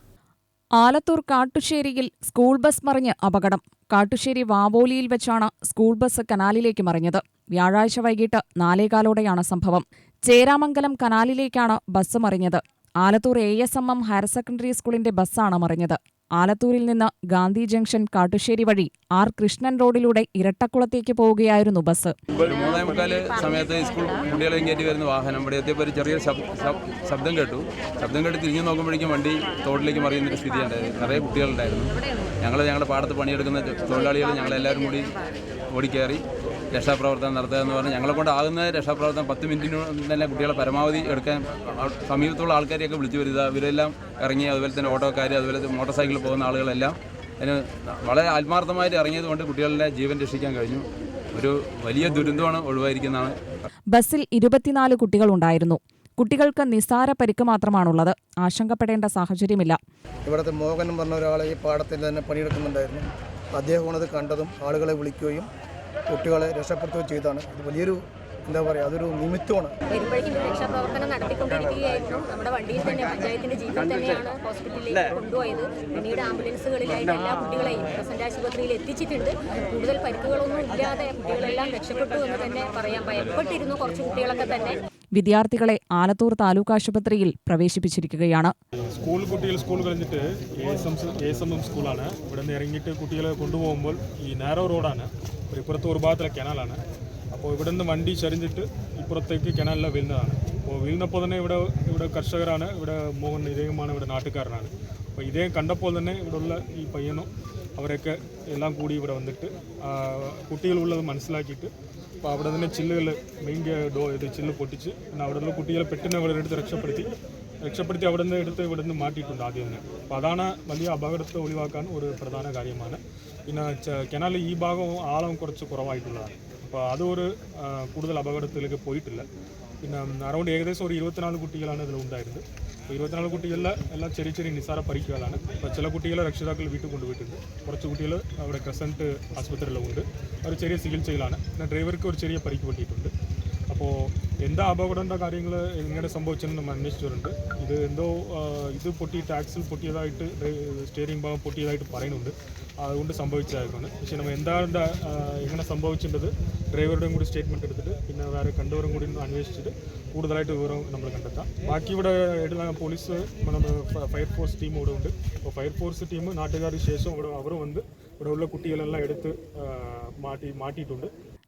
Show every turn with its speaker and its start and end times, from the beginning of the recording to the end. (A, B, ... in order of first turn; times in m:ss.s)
0:00.8-0:22.1 A
0:22.4-0:35.1 B
0:35.7-0:53.3 B
0:53.9-0:59.8 A
1:00.2-1:05.5 C
1:06.1-1:09.7 C
1:09.9-1:24.8 D
1:25.2-1:28.5 A
1:28.8-1:36.8 E
1:37.3-1:57.1 E
1:57.6-2:09.2 E
2:09.8-2:23.1 E
2:23.7-2:51.1 E